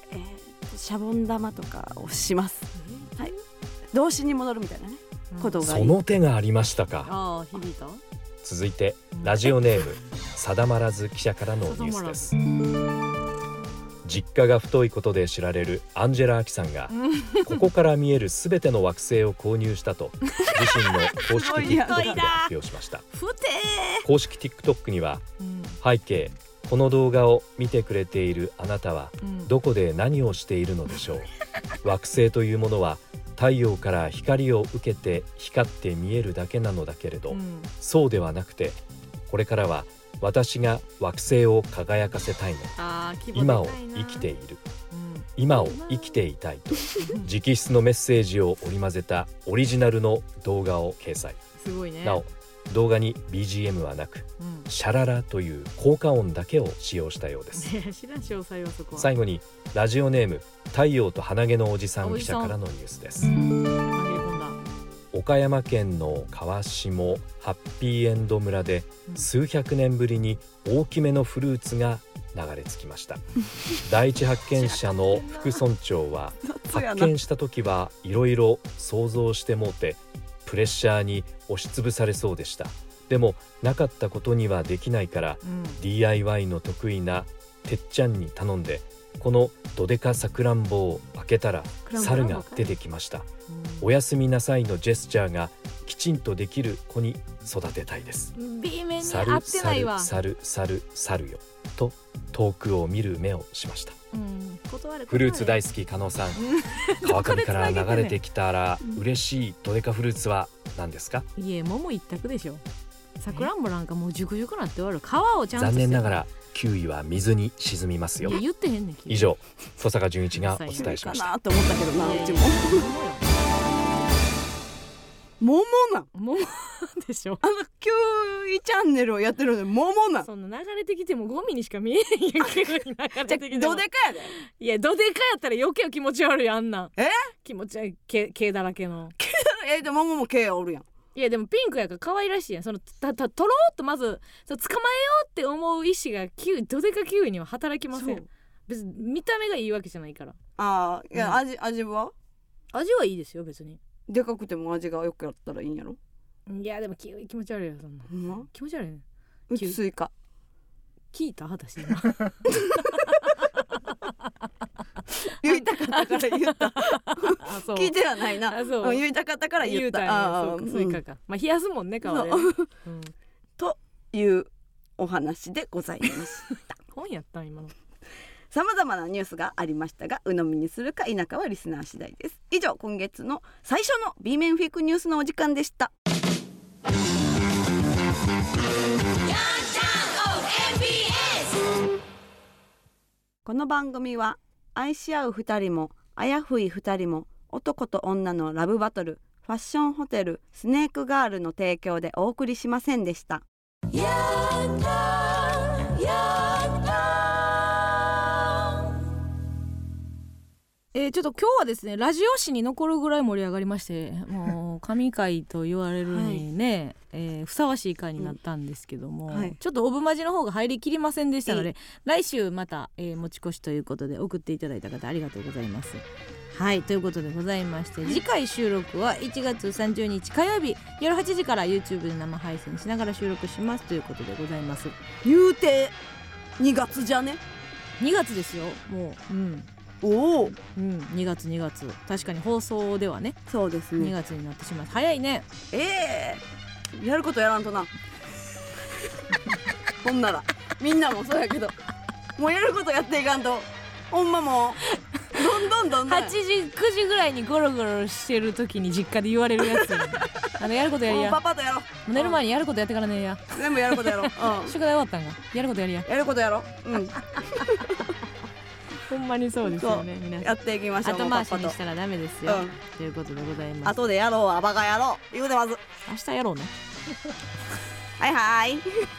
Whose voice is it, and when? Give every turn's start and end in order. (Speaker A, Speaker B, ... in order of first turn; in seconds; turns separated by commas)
Speaker A: 0.1-3.4, Speaker B: 2.8-3.1, Speaker A: 3.9-6.0, Speaker B: 5.3-5.6, Speaker C: 5.6-7.1, Speaker B: 7.0-8.0, Speaker C: 8.4-12.4, Speaker B: 9.2-9.4, Speaker B: 11.6-12.3, Speaker C: 14.0-23.1, Speaker B: 16.9-17.6, Speaker B: 21.3-22.5, Speaker A: 21.3-22.2, Speaker B: 23.1-24.1, Speaker C: 24.0-25.3, Speaker B: 25.4-25.8, Speaker C: 25.8-31.3, Speaker B: 29.2-29.5, Speaker C: 31.8-42.8, Speaker B: 37.3-37.7, Speaker B: 42.8-44.3, Speaker C: 43.3-44.6, Speaker B: 44.9-46.2, Speaker C: 45.4-51.4, Speaker B: 47.0-47.3, Speaker B: 51.6-52.2, Speaker C: 52.0-57.7, Speaker B: 54.4-54.7, Speaker B: 57.5-59.1, Speaker C: 59.0-63.3, Speaker B: 62.0-62.6, Speaker B: 63.2-64.6, Speaker C: 65.1-73.2, Speaker C: 73.8-93.3, Speaker B: 74.5-75.6, Speaker A: 76.4-77.2, Speaker B: 85.4-85.8, Speaker A: 91.8-92.7, Speaker B: 93.5-93.9, Speaker C: 93.8-98.3, Speaker B: 98.4-100.1, Speaker C: 99.0-104.0, Speaker B: 104.1-105.6, Speaker C: 105.1-106.4, Speaker B: 106.4-108.2, Speaker C: 107.0-111.3, Speaker B: 111.4-112.6, Speaker B: 113.2-116.2, Speaker C: 115.5-118.4, Speaker B: 118.2-119.4, Speaker C: 119.1-121.3, Speaker B: 120.3-121.2, Speaker A: 120.7-122.9, Speaker B: 121.9-123.3, Speaker A: 125.4-126.1, Speaker B: 126.1-127.4, Speaker A: 127.4-130.3, Speaker B: 130.2-139.2, Speaker A: 133.3-134.3, Speaker A: 137.0-137.3, Speaker A: 139.2-140.8, Speaker B: 141.2-150.4, Speaker A: 147.9-148.3, Speaker A: 150.6-152.1, Speaker B: 151.2-151.4, Speaker B: 152.7-153.8, Speaker A: 154.1-156.0, Speaker B: 156.5-159.8, Speaker A: 158.1-158.4, Speaker A: 159.5-160.1, Speaker B: 161.1-162.7, Speaker A: 165.4-171.0, Speaker B: 165.4-169.0, Speaker B: 169.6-173.1, Speaker A: 172.0-172.7, Speaker A: 173.6-176.6, Speaker B: 176.9-177.7, Speaker A: 178.5-185.9, Speaker A: 193.4-203.4, Speaker B: 203.9-207.6, Speaker B: 210.9-235.0, Speaker A: 216.1-216.4, Speaker A: 219.3-219.6, Speaker A: 235.2-235.9, Speaker A: 236.6-237.4, Speaker B: 238.0-239.7, Speaker A: 240.0-240.6, Speaker B: 240.7-243.4, Speaker A: 243.5-244.1, Speaker B: 244.0-245.5, Speaker A: 245.7-246.4, Speaker A: 246.9-247.9, Speaker A: 250.0-251.7, Speaker A: 252.4-256.3, Speaker B: 254.9-261.4, Speaker A: 261.1-262.4, Speaker B: 261.9-266.1, Speaker A: 263.5-264.8, Speaker A: 266.1-268.0, Speaker B: 269.1-274.0, Speaker A: 269.6-271.7, Speaker A: 272.4-272.8, Speaker A: 273.9-275.8, Speaker B: 276.1-276.7, Speaker A: 278.2-278.9